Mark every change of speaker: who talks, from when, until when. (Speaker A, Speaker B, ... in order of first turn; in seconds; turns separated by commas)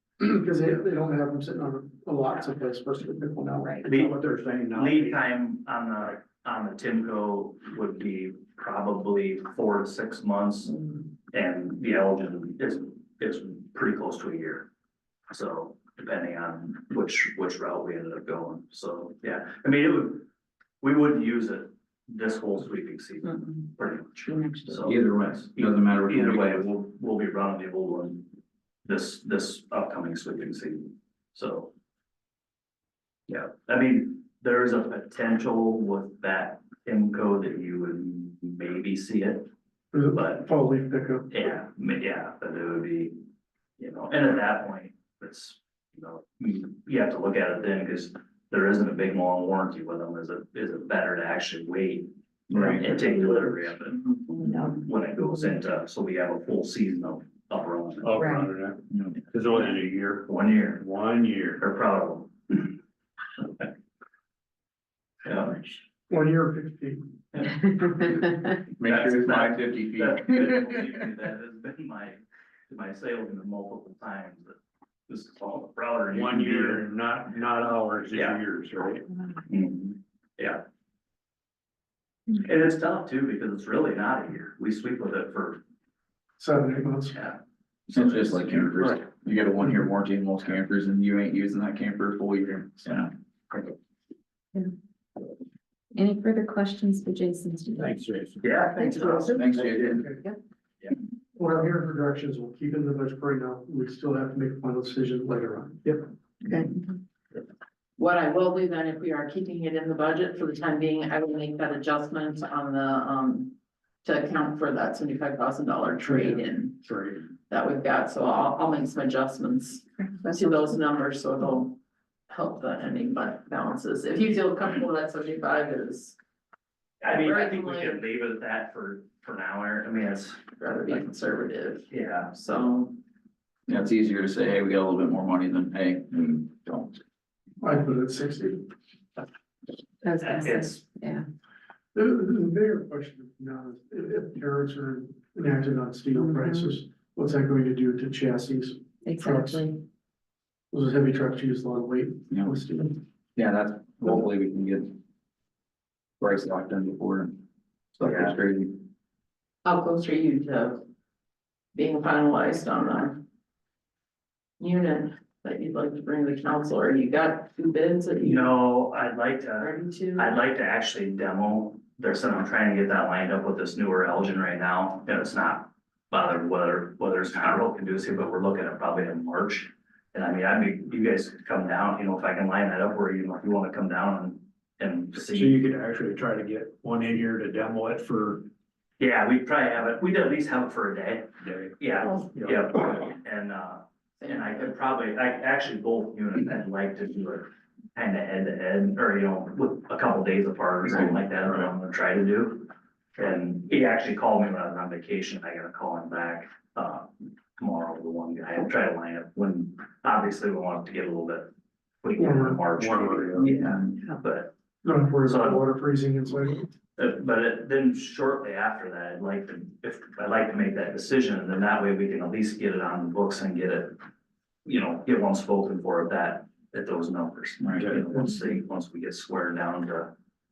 Speaker A: 0.2-4.2, Speaker B: 4.1-5.2, Speaker C: 4.7-10.8, Speaker C: 11.3-14.7, Speaker C: 15.3-20.3, Speaker C: 20.8-28.3, Speaker D: 24.7-26.7, Speaker C: 28.9-31.7, Speaker C: 33.3-39.5, Speaker A: 39.9-41.4, Speaker C: 40.1-40.5, Speaker C: 41.3-43.2, Speaker C: 43.8-58.2, Speaker D: 52.5-53.0, Speaker E: 54.4-55.2, Speaker B: 58.0-61.6, Speaker E: 58.2-58.5, Speaker D: 58.9-59.2, Speaker C: 60.3-60.9, Speaker C: 61.6-62.8, Speaker C: 65.2-65.8, Speaker A: 66.1-67.2, Speaker C: 67.3-68.2, Speaker D: 68.8-70.8, Speaker C: 68.8-74.6, Speaker C: 75.1-76.8, Speaker B: 76.1-79.1, Speaker C: 78.1-78.4, Speaker C: 79.5-80.6, Speaker C: 82.4-85.6, Speaker A: 86.4-87.2, Speaker D: 87.9-93.1, Speaker E: 96.0-98.0, Speaker B: 97.8-98.5, Speaker C: 98.4-99.5, Speaker E: 98.7-99.5, Speaker D: 99.3-100.1, Speaker A: 99.9-100.2, Speaker A: 101.3-106.0, Speaker E: 106.5-106.9, Speaker F: 108.0-116.8, Speaker B: 116.0-117.3, Speaker F: 117.5-121.8, Speaker E: 120.0-120.8, Speaker F: 122.3-126.2, Speaker C: 127.0-131.0, Speaker F: 127.1-128.0, Speaker F: 130.6-133.0, Speaker C: 131.9-132.4, Speaker D: 133.7-137.0, Speaker A: 137.6-138.7, Speaker E: 140.0-141.2, Speaker C: 140.2-140.8, Speaker A: 141.9-149.8, Speaker E: 146.2-146.7, Speaker E: 149.0-149.8, Speaker A: 150.7-153.0, Speaker D: 153.4-155.0, Speaker D: 156.2-157.4, Speaker D: 157.9-158.8, Speaker C: 158.0-158.3, Speaker F: 159.7-160.8, Speaker F: 161.7-163.2, Speaker F: 164.6-168.5, Speaker C: 168.2-185.6, Speaker F: 169.6-170.3, Speaker B: 185.2-188.5, Speaker C: 189.0-211.5, Speaker B: 191.4-192.7, Speaker F: 194.2-194.7, Speaker C: 212.0-214.5, Speaker A: 212.2-212.7, Speaker B: 212.7-213.7, Speaker A: 214.8-216.7, Speaker C: 215.2-215.7, Speaker C: 217.0-224.0, Speaker C: 224.7-230.1, Speaker B: 227.7-228.3